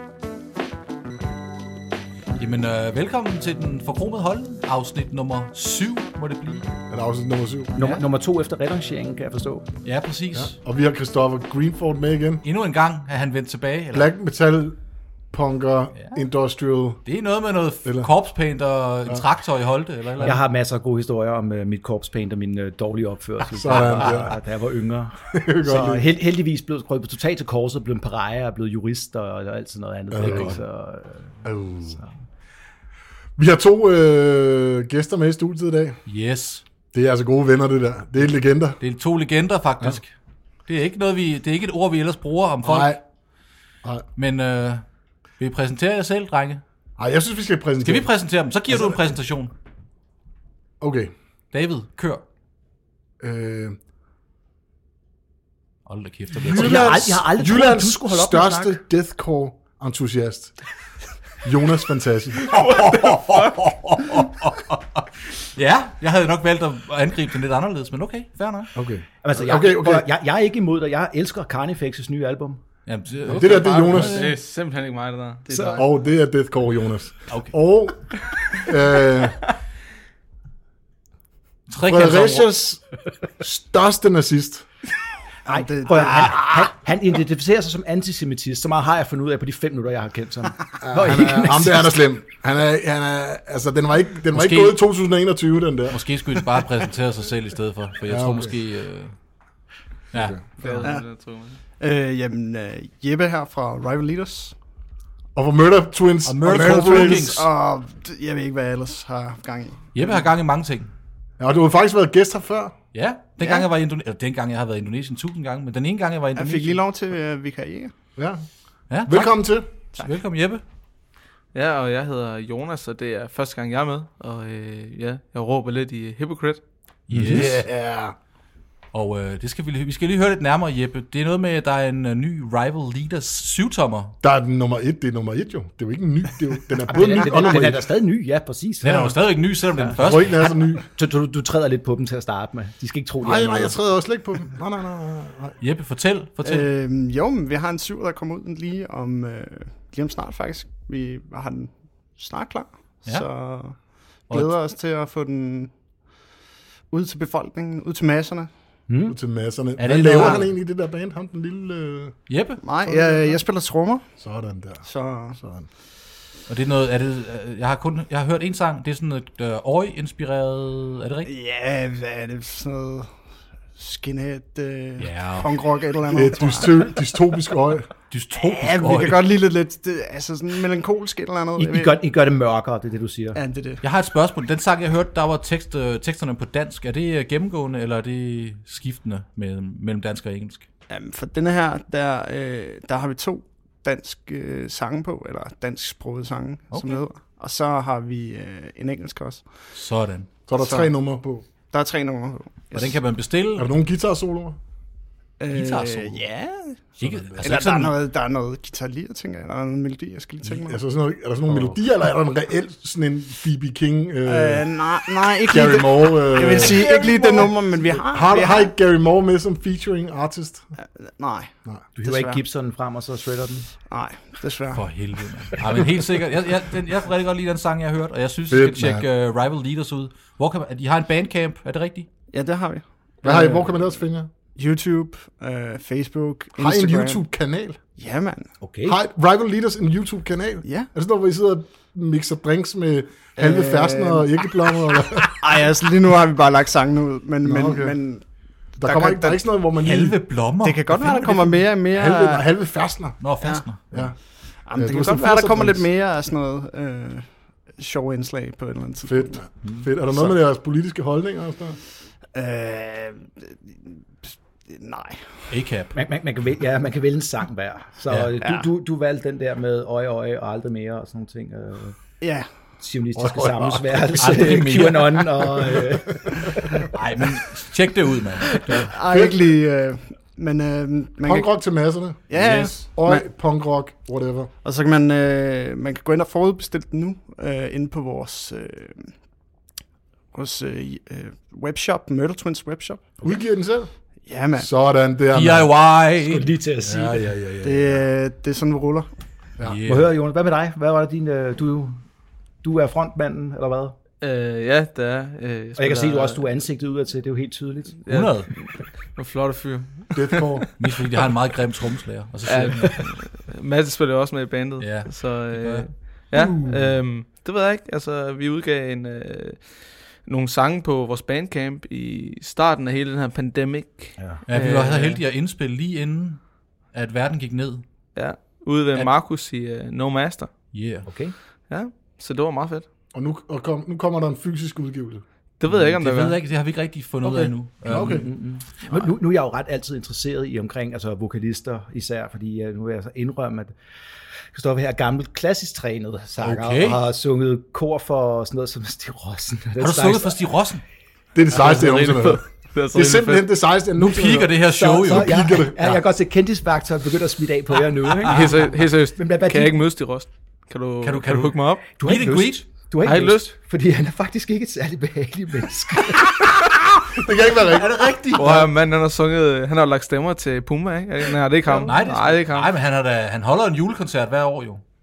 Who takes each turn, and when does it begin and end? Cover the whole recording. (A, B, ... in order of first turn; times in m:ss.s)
0:02.4-0:06.7 A
0:06.9-0:07.7 B
0:07.8-0:09.7 C
0:09.8-0:10.6 A
0:10.3-0:12.4 B
0:12.4-0:14.1 A
0:13.9-0:14.8 B
0:15.3-0:17.0 B
0:17.0-0:20.4 A
0:17.8-0:18.1 B
0:20.2-0:32.2 C
0:23.5-0:24.4 B
0:23.7-0:24.1 A
0:25.3-0:26.0 B
0:30.1-0:30.6 B
0:30.2-0:30.6 A
0:31.4-0:32.0 B
0:33.4-0:36.0 B
0:36.1-0:36.6 A
0:36.9-0:38.8 B
0:38.8-0:40.1 A
0:40.7-0:43.0 A
0:42.6-0:43.0 B
0:44.2-0:44.9 A
0:45.4-0:46.6 A
0:47.0-0:48.1 B
0:47.8-0:49.5 A
0:48.7-0:49.0 B
0:50.8-0:51.1 B
0:51.5-0:52.2 A
0:53.2-0:53.8 B
0:55.9-0:57.2 A
0:56.3-1:00.6 B
0:56.4-0:58.8 C
1:01.4-1:02.6 B
1:02.4-1:08.7 A
1:08.8-1:10.1 B
1:09.2-1:12.6 C
1:12.9-1:14.4 A
1:13.3-1:14.3 B
1:13.6-1:15.8 D
1:15.5-1:15.8 C
1:15.6-1:19.5 B
1:17.3-1:17.6 A
1:21.7-1:22.5 A
1:21.9-1:22.8 B
1:23.4-1:24.7 B
1:25.5-1:26.7 E
1:25.5-1:31.9 C
1:30.8-1:36.0 B
1:34.3-1:34.8 A
1:35.9-1:39.2 A
1:38.1-1:38.5 B
1:40.1-1:40.9 A
1:40.1-1:40.4 B
1:40.6-1:41.6 D
1:40.8-1:41.1 E
1:41.8-1:44.6 E
1:45.4-1:47.4 B
1:46.2-1:47.5 A
1:46.4-1:49.9 E
1:49.9-1:50.9 A
1:51.4-1:52.8 B
1:52.9-1:56.8 A
1:53.4-1:53.7 E
1:56.4-1:57.9 E
1:58.2-1:58.5 B
1:58.9-2:00.6 A
1:59.0-1:59.7 B
2:01.5-2:06.6 D
2:07.1-2:07.7 A
2:07.1-2:08.2 B
2:08.9-2:14.2 A
2:14.2-2:17.9 B
2:16.9-2:19.1 C
2:18.8-2:20.5 A
2:20.0-2:20.8 B
2:20.9-2:23.8 C
2:23.2-2:25.6 B
2:25.6-2:26.7 A
2:26.4-2:35.7 E
2:34.3-2:34.6 A
2:36.9-2:38.5 E
2:38.9-2:39.2 C
2:39.1-2:42.2 B
2:39.8-2:40.5 A
2:42.3-2:42.6 A
2:42.6-2:44.1 E
2:42.8-2:43.4 B
2:44.2-2:45.7 B
2:44.8-2:45.4 E
2:46.5-2:51.3 A
2:51.2-2:53.1 E
2:53.8-2:57.0 E
2:55.0-2:55.5 A
2:56.0-2:57.9 B
2:58.1-2:59.2 A
2:58.4-3:02.0 E
3:01.6-3:03.4 C
3:03.4-3:03.8 E
3:03.8-3:10.7 A
3:10.9-3:19.5 E
3:16.7-3:17.0 A
3:19.7-3:20.4 A
3:20.5-3:21.4 B
3:20.6-3:20.9 E
3:21.7-3:23.0 E
3:22.7-3:23.7 A
3:23.6-3:24.6 B
3:25.4-3:30.8 E
3:25.5-3:26.2 A
3:27.0-3:27.9 A
3:27.0-3:27.4 B
3:30.4-3:34.7 B
3:34.3-3:38.7 E
3:35.4-3:40.7 B
3:41.0-3:41.5 E
3:42.0-3:43.7 C
3:42.0-3:42.4 E
3:43.9-3:45.6 E
3:44.7-3:52.1 A
3:48.5-3:49.1 B
3:52.3-3:53.7 E
3:53.2-3:54.3 B
3:54.6-3:57.2 E
3:56.6-3:57.8 B
3:58.0-3:58.5 E
3:58.6-3:59.0 C
3:58.8-4:05.4 B
4:03.4-4:04.5 E
4:05.2-4:09.4 E
4:07.4-4:08.0 B
4:08.8-4:10.2 B
4:09.8-4:11.7 A
4:10.6-4:12.4 E
4:11.9-4:13.2 B
4:13.2-4:14.1 A
4:13.4-4:13.7 E
4:13.9-4:15.9 B
4:14.2-4:19.4 E
4:19.1-4:21.8 B
4:22.3-4:25.5 E
4:25.5-4:26.0 A
4:25.9-4:32.0 C
4:28.1-4:28.4 A
4:32.2-4:32.5 E
4:32.8-4:36.7 C
4:33.2-4:34.1 B
4:34.0-4:35.6 A
4:36.9-4:38.9 A
4:38.8-4:41.5 E
4:38.8-4:39.5 B
4:41.2-4:44.5 B
4:42.3-4:43.2 E
4:42.3-4:42.9 A
4:44.6-4:49.1 E
4:50.3-4:53.2 E
4:53.2-4:53.9 B
4:54.2-4:54.7 E
4:54.6-4:56.0 B
4:55.3-4:56.6 A
4:56.2-4:57.3 C
4:56.8-4:58.0 B
4:57.6-4:59.1 E
4:59.6-5:00.1 A
4:59.9-5:02.0 C
5:02.6-5:04.0 C
5:04.2-5:06.4 D
5:05.8-5:08.1 C
5:08.1-5:10.7 D
5:08.1-5:08.5 A
5:10.2-5:10.7 B
5:10.8-5:13.1 A
5:12.4-5:25.2 D
5:14.8-5:16.1 A
5:16.3-5:16.9 B
5:24.2-5:24.4 C
5:24.5-5:27.8 A
5:28.1-5:30.6 D
5:30.7-5:31.3 A
5:31.0-5:31.3 C
5:31.7-5:32.9 D
5:33.1-5:35.2 B
5:35.6-5:36.4 D
5:35.7-5:38.3 A
5:37.8-5:38.3 B
5:37.9-5:43.7 C
5:44.5-5:50.4 C
5:46.4-5:47.0 A
5:49.8-5:50.8 A
5:51.4-5:55.8 B
5:51.5-5:53.5 D
5:54.0-5:56.0 A
5:54.7-5:59.8 C
5:58.2-5:58.6 A
5:58.3-6:01.8 D
6:01.0-6:02.7 A
6:02.0-6:06.4 C
6:03.0-6:03.5 D
6:07.1-6:08.6 B
6:07.7-6:08.6 A
6:08.3-6:12.7 D
6:11.8-6:12.4 C
6:11.8-6:14.8 A